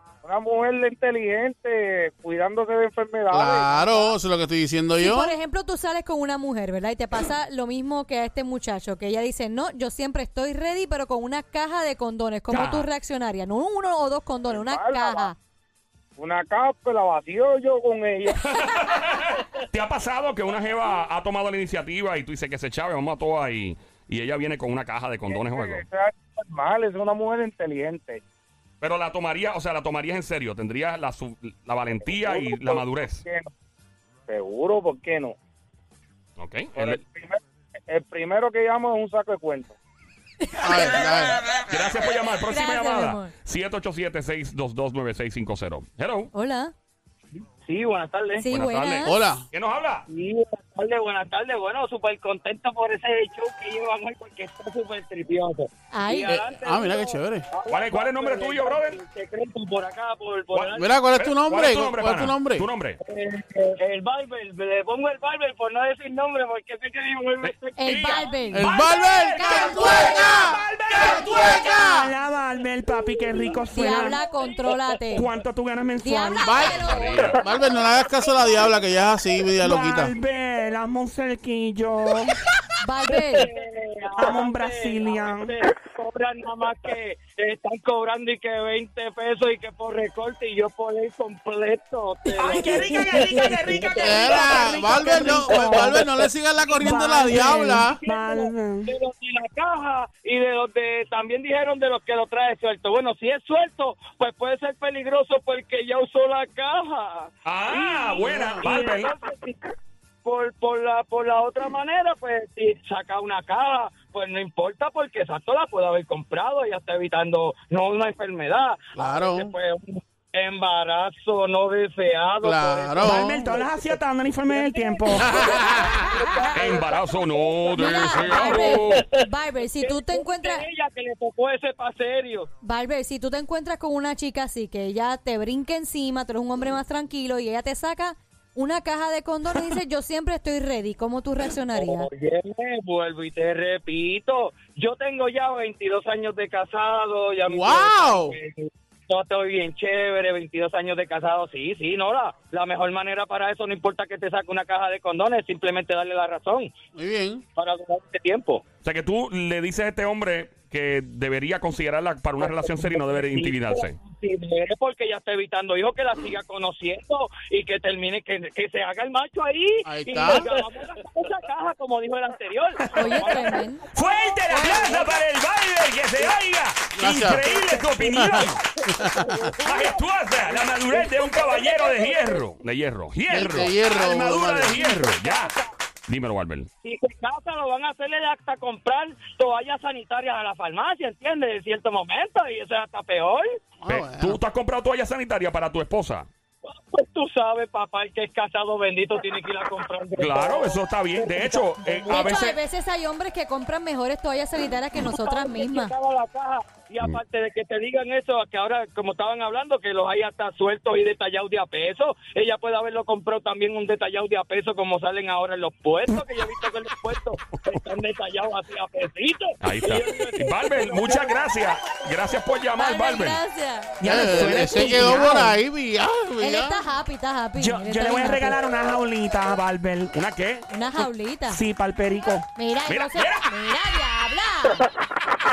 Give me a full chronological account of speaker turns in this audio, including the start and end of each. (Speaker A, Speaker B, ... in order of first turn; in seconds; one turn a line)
Speaker A: 0.2-4.1
Speaker B: 3.3-5.3
Speaker C: 5.0-15.3
Speaker D: 12.5-12.9
Speaker A: 14.5-15.3
Speaker A: 16.2-18.4
Speaker D: 18.4-25.8
Speaker A: 25.3-28.2
Speaker D: 28.8-33.2
Speaker A: 32.0-33.5
Speaker A: 34.3-35.4
Speaker D: 36.4-37.0
Speaker A: 36.7-39.8
Speaker C: 40.5-41.2
Speaker B: 40.6-41.4
Speaker D: 41.7-46.3
Speaker C: 42.5-43.3
Speaker C: 46.3-46.7
Speaker E: 47.6-48.5
Speaker C: 48.4-49.3
Speaker D: 48.5-50.0
Speaker B: 49.0-49.5
Speaker E: 50.1-60.9
Speaker C: 55.9-56.4
Speaker B: 56.3-57.5
Speaker D: 57.7-59.0
Speaker D: 60.5-63.0
Speaker B: 60.7-62.7
Speaker E: 63.0-68.5
Speaker D: 67.4-69.9
Speaker C: 67.8-68.7
Speaker B: 68.5-70.6
Speaker F: 68.7-74.2
Speaker D: 70.4-71.8
Speaker B: 71.2-72.1
Speaker C: 73.7-75.3
Speaker E: 74.5-74.8
Speaker F: 75.1-76.6
Speaker C: 76.0-77.5
Speaker B: 76.4-80.1
Speaker D: 76.6-77.4
Speaker F: 79.6-82.3
Speaker C: 82.8-83.5
Speaker E: 83.1-109.6
Speaker F: 84.1-85.5
Speaker F: 92.4-96.0
Speaker C: 92.5-93.5
Speaker B: 94.0-98.0
Speaker F: 96.8-98.9
Speaker D: 107.4-109.1
Speaker B: 108.3-108.6
Speaker E: 110.2-129.2
Speaker B: 119.0-119.5
Speaker B: 122.4-123.4
Speaker F: 123.0-125.6
Speaker B: 125.1-126.2
Speaker D: 126.5-129.1
Speaker C: 127.7-130.6
Speaker E: 129.8-132.5
Speaker C: 132.6-142.1
Speaker E: 141.7-156.7
Speaker B: 147.5-148.4
Speaker B: 156.9-157.4
Speaker E: 157.6-158.6
Speaker D: 158.8-164.0
Speaker E: 162.4-175.2
Speaker B: 169.8-170.6
Speaker C: 172.9-173.8
Speaker D: 173.9-178.6
Speaker C: 174.5-174.8
Speaker B: 176.9-177.4
Speaker E: 177.4-182.4
Speaker B: 178.1-179.5
Speaker D: 179.6-185.5
Speaker B: 183.3-184.9
Speaker E: 184.7-185.7
Speaker D: 186.1-186.7
Speaker E: 186.8-193.5
Speaker B: 193.8-194.4
Speaker D: 193.8-196.3
Speaker E: 196.7-202.4
Speaker D: 200.2-202.6
Speaker C: 202.1-205.9
Speaker E: 205.0-222.0
Speaker D: 219.6-223.4
Speaker C: 222.8-224.3
Speaker F: 224.0-225.6
Speaker B: 224.0-226.8
Speaker C: 226.4-228.6
Speaker F: 227.6-230.1
Speaker D: 230.1-230.7
Speaker C: 230.7-231.6
Speaker F: 231.0-232.5
Speaker C: 232.6-234.8
Speaker D: 232.9-233.5